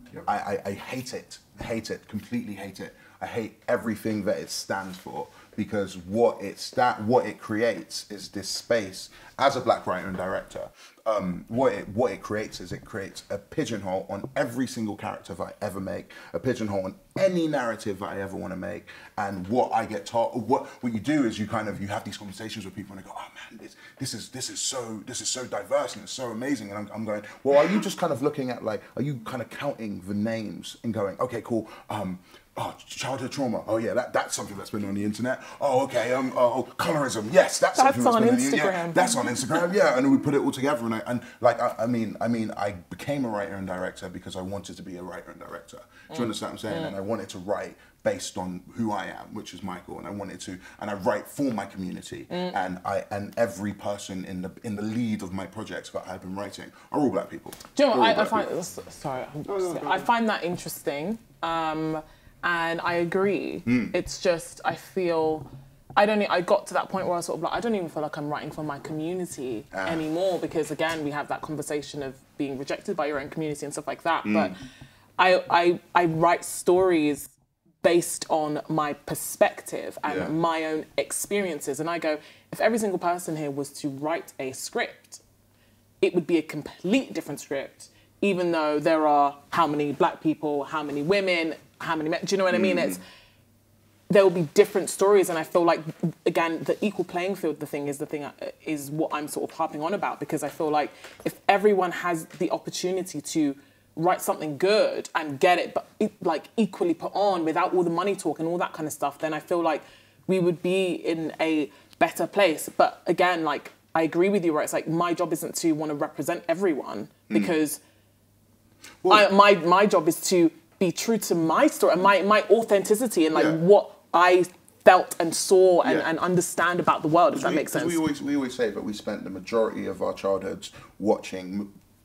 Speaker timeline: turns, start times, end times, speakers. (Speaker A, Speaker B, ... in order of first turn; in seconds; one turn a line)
Speaker A: 0.2-58.5
Speaker B: 37.7-39.7
Speaker B: 46.1-46.9
Speaker B: 52.3-52.5
Speaker B: 57.7-74.6
Speaker A: 59.4-60.1
Speaker A: 63.6-63.9
Speaker A: 69.7-70.0
Speaker A: 74.2-74.5
Speaker B: 75.2-85.2
Speaker A: 80.0-80.3
Speaker B: 86.0-93.0
Speaker A: 92.5-93.0
Speaker B: 94.1-117.8
Speaker A: 119.0-119.3
Speaker B: 119.1-128.0
Speaker A: 125.8-126.1
Speaker A: 127.3-131.7